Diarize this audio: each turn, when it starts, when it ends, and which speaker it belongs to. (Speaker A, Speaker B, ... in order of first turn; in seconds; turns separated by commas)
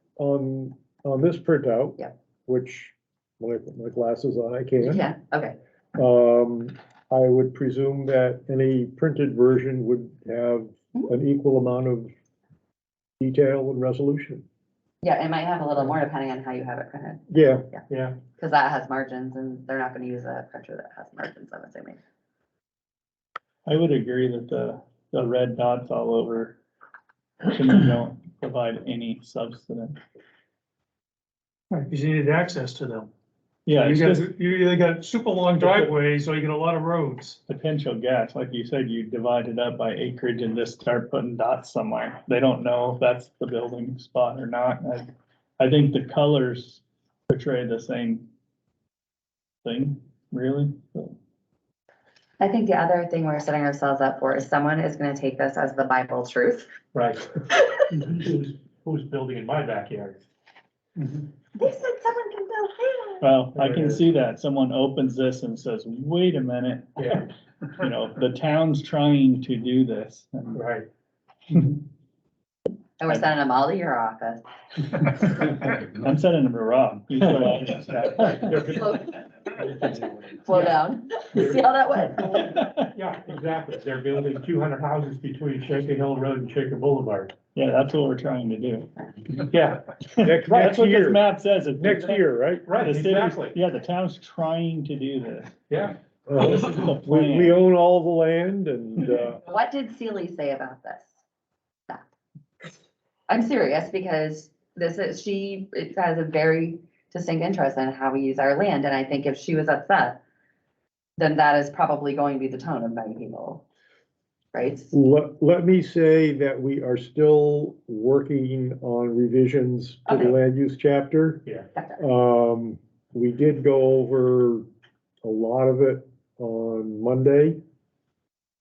Speaker A: 0.2-5.1, Speaker B: 4.8-5.6, Speaker A: 6.0-12.1, Speaker A: 13.2-14.4, Speaker B: 15.0-17.8, Speaker A: 17.3-17.7, Speaker C: 17.9-18.2, Speaker B: 18.3-22.0, Speaker D: 23.7-26.6, Speaker D: 27.4-30.0, Speaker E: 31.7-33.1, Speaker D: 33.7-34.3, Speaker E: 33.7-37.4, Speaker D: 35.6-35.9, Speaker D: 37.5-48.2, Speaker D: 49.6-51.2, Speaker B: 52.4-56.7, Speaker C: 56.9-57.4, Speaker C: 57.9-60.2, Speaker B: 61.6-63.3, Speaker D: 63.2-67.2, Speaker C: 63.5-64.0, Speaker C: 67.0-67.3, Speaker D: 67.7-70.6, Speaker C: 70.5-70.9, Speaker D: 71.5-71.8, Speaker B: 73.0-74.4, Speaker D: 74.9-78.8, Speaker C: 78.2-78.9, Speaker B: 78.7-79.2, Speaker C: 79.5-80.8, Speaker B: 80.4-82.5, Speaker C: 81.3-87.3, Speaker D: 82.5-82.9, Speaker D: 87.5-89.4, Speaker C: 89.5-90.0, Speaker D: 90.0-95.5, Speaker A: 90.2-91.2, Speaker C: 90.5-90.8, Speaker A: 91.8-92.7, Speaker C: 92.7-93.6, Speaker C: 95.7-96.0, Speaker A: 96.3-99.4, Speaker D: 96.4-97.6, Speaker B: 99.5-101.1, Speaker B: 103.3-110.2, Speaker B: 111.2-113.6, Speaker B: 114.5-114.9, Speaker A: 114.9-121.5, Speaker B: 120.1-120.3, Speaker B: 121.8-122.0, Speaker A: 122.0-124.7, Speaker A: 125.2-127.6